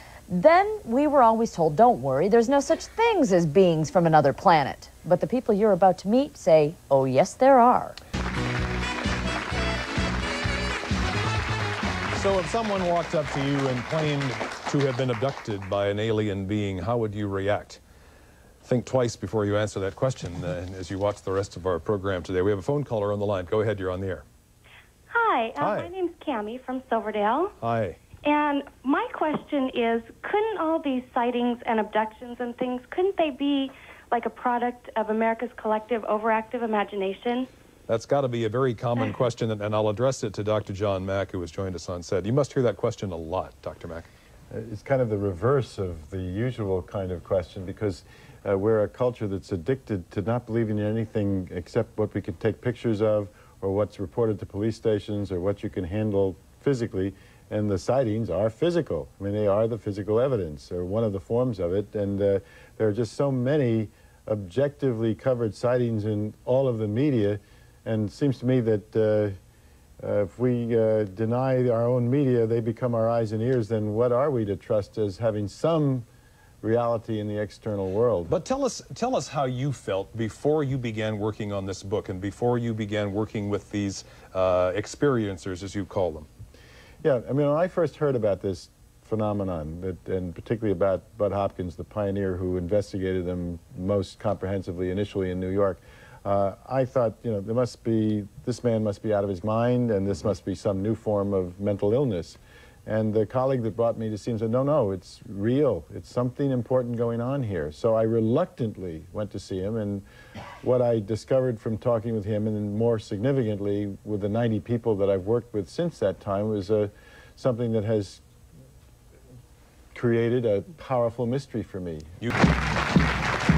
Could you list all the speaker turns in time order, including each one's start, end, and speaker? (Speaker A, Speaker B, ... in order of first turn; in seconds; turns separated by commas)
Speaker A: 0.3-8.0, Speaker B: 12.1-17.8, Speaker B: 18.6-24.2, Speaker C: 25.1-27.5, Speaker B: 25.6-25.9, Speaker B: 27.6-28.0, Speaker C: 28.2-37.5, Speaker B: 37.9-44.1, Speaker D: 44.5-69.3, Speaker D: 70.0-76.1, Speaker D: 76.6-78.3, Speaker B: 78.3-86.3, Speaker D: 87.0-110.0, Speaker D: 110.6-118.2, Speaker D: 119.9-122.1